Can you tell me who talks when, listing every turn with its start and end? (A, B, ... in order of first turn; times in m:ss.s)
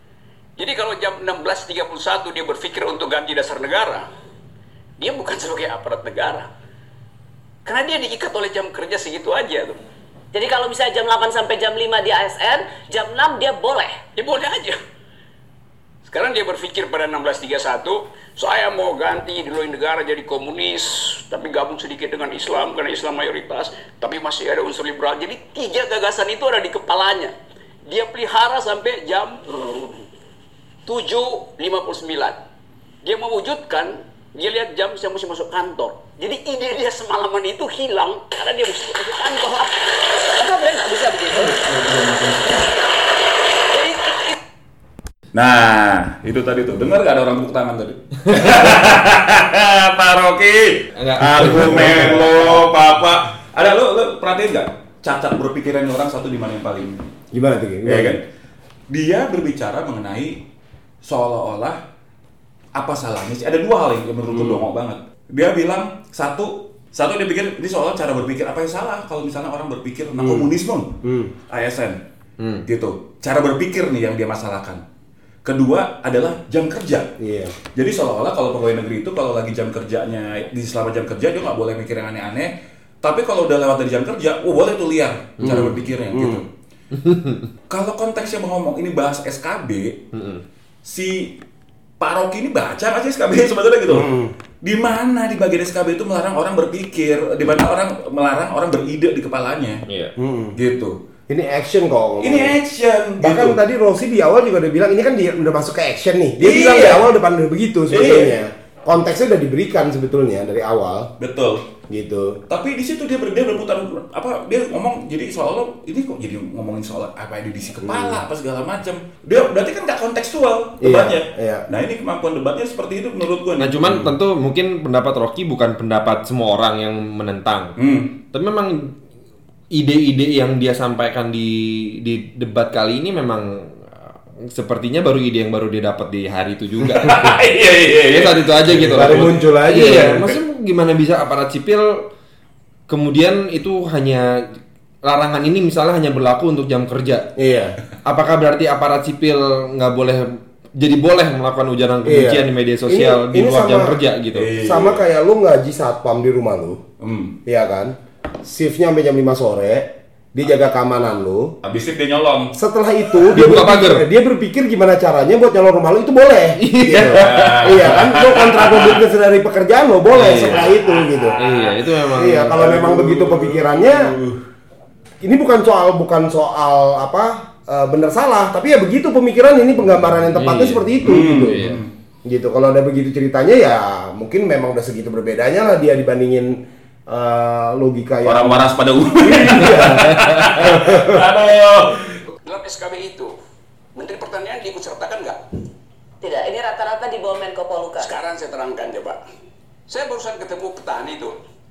0:00.6-0:04.1 A
0:05.0-0:06.5 A
0:07.6-0:09.8 A
0:10.3-0:14.0 B
0:14.2-0:14.8 A
0:16.0-0:27.3 A
0:27.9-0:30.0 A
0:30.9-0:32.4 A
0:33.0-0:39.8 A
0:40.2-0:41.6 B
0:41.4-0:42.7 C
0:43.7-0:44.3 B
0:45.3-0:57.0 D
0:51.0-0:52.6 C
0:57.3-0:58.2 E
0:57.9-0:58.2 D
0:58.9-1:00.4 D
1:01.0-1:01.8 D
1:02.8-1:10.9 D
1:04.3-1:04.7 E
1:10.2-1:10.5 E
1:11.0-1:11.3 E
1:11.5-1:12.0 D
1:12.7-1:14.8 D
1:15.4-1:17.1 D
1:17.2-1:17.6 E
1:17.7-1:26.4 D
1:25.4-1:26.4 E
1:26.9-1:27.5 C
1:27.7-1:30.0 D
1:30.1-1:30.4 C
1:30.8-1:31.4 D
1:32.0-1:34.1 D
1:33.9-1:34.3 E
1:34.6-1:39.8 D
1:39.9-1:40.1 C
1:40.2-1:40.5 E
1:40.6-1:41.0 D
1:41.3-1:42.5 E
1:42.2-1:43.6 D
1:43.2-1:51.1 E
1:46.4-1:47.1 D
1:47.9-1:48.4 D
1:51.2-1:51.6 D
1:51.9-1:52.4 E
1:52.5-2:04.1 D
1:57.8-1:58.2 E
2:00.8-2:01.6 E
2:03.6-2:07.8 C
2:07.8-2:08.1 D
2:08.3-2:09.0 C
2:09.7-2:17.4 C
2:16.8-2:19.4 D
2:18.0-2:22.1 C
2:18.9-2:20.3 E
2:22.9-2:27.3 C
2:27.4-2:27.8 E
2:28.0-2:34.5 C
2:32.0-2:34.0 E
2:34.3-2:35.0 D
2:34.6-2:36.8 E
2:37.0-2:37.4 D
2:37.5-2:41.5 E
2:41.6-2:42.5 D
2:42.6-2:51.4 E
2:43.3-2:44.0 C
2:46.6-2:47.6 C
2:47.1-2:49.0 D
2:50.1-2:50.6 C
2:50.3-2:54.4 D
2:51.4-2:52.7 C
2:52.2-2:54.1 E
2:55.2-3:01.7 E
3:00.4-3:00.9 C
3:01.0-3:01.9 D
3:01.4-3:01.8 C
3:02.2-3:06.6 E
3:07.1-3:11.2 E
3:08.2-3:12.2 D
3:12.4-3:13.3 A
3:14.0-3:15.4 A
3:16.2-3:18.1 B
3:18.0-3:19.2 A
3:19.9-3:21.4 A